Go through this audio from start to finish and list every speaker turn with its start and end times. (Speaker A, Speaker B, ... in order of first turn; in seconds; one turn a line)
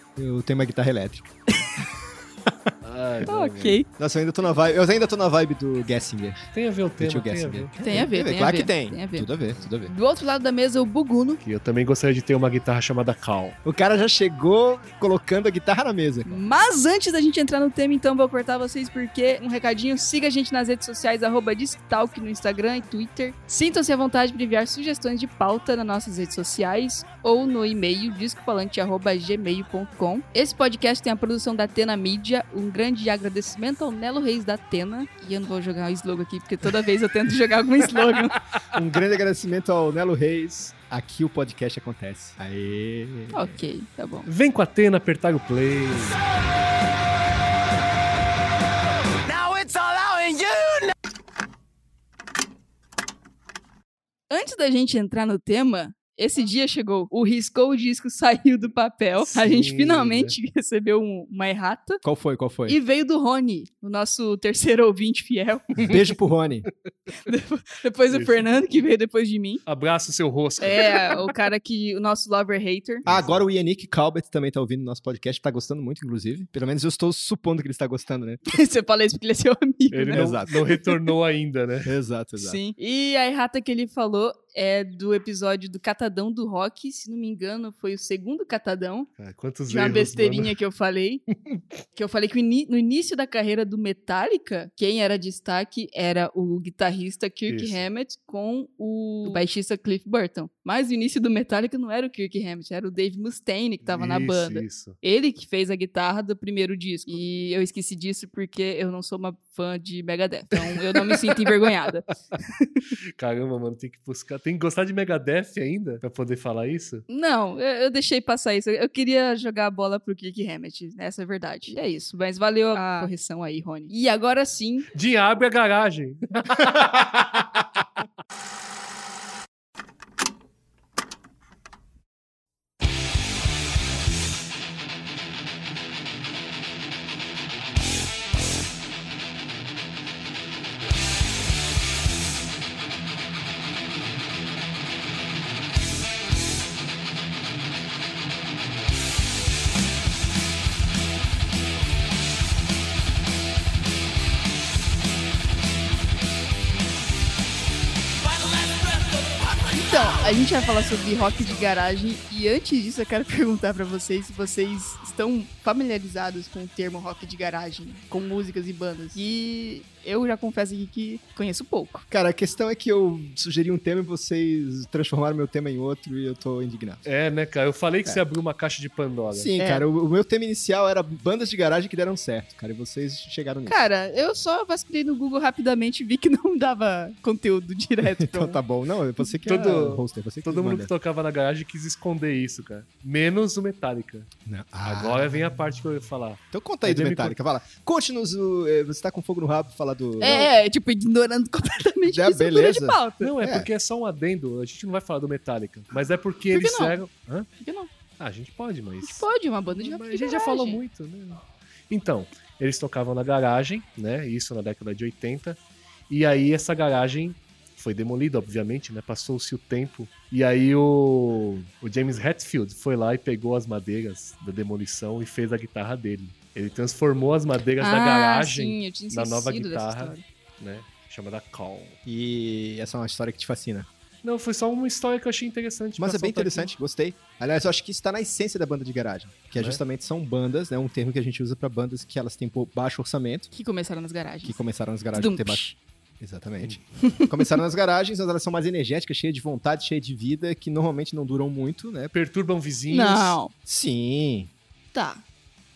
Speaker A: 0.2-1.3
Speaker A: 2.5-2.7
Speaker B: 2.8-3.8
Speaker C: 3.2-3.9
Speaker A: 4.0-6.4
Speaker B: 6.5-7.7
Speaker A: 7.0-9.9
Speaker C: 7.8-9.3
Speaker C: 9.8-11.4
Speaker B: 11.4-13.6
Speaker A: 13.6-16.4
Speaker C: 16.3-38.4
Speaker A: 38.7-43.6
Speaker C: 43.3-44.3
Speaker B: 44.3-46.2
Speaker C: 54.3-62.0
Speaker B: 59.2-60.4
Speaker A: 62.0-62.8
Speaker C: 62.7-66.0
Speaker A: 65.8-66.7
Speaker C: 67.2-69.6
Speaker B: 68.1-68.5
Speaker B: 69.7-71.3
Speaker C: 70.6-73.1
Speaker B: 73.0-73.5
Speaker A: 73.1-78.5
Speaker C: 78.5-81.0
Speaker B: 79.9-81.9
Speaker A: 80.1-80.6
Speaker A: 81.8-82.6
Speaker C: 82.4-89.1
Speaker B: 89.2-90.6
Speaker C: 89.7-91.2
Speaker C: 92.0-112.9
Speaker B: 97.5-97.8
Speaker B: 103.8-105.0
Speaker B: 110.9-111.7
Speaker B: 113.2-117.0
Speaker C: 117.1-124.9
Speaker B: 124.9-127.8
Speaker C: 159.6-172.1
Speaker A: 172.1-177.1
Speaker B: 177.1-179.5
Speaker A: 179.3-183.8
Speaker C: 179.6-179.9
Speaker C: 183.7-188.6
Speaker A: 188.0-190.9
Speaker B: 189.4-194.3
Speaker A: 194.5-195.4
Speaker B: 194.8-197.4
Speaker A: 196.5-200.5
Speaker C: 200.2-203.3
Speaker A: 202.1-203.7
Speaker B: 203.2-207.5
Speaker C: 206.5-207.0
Speaker C: 207.6-207.9
Speaker B: 208.2-215.6
Speaker C: 209.0-210.8
Speaker B: 216.1-232.0
Speaker C: 227.8-230.2
Speaker A: 232.1-233.9
Speaker B: 234.2-236.7
Speaker A: 236.0-243.5
Speaker C: 243.5-244.6
Speaker A: 244.4-252.1
Speaker C: 245.1-245.8
Speaker C: 247.0-247.6
Speaker B: 252.1-253.4
Speaker C: 252.9-253.5
Speaker A: 253.7-254.5
Speaker C: 254.9-255.2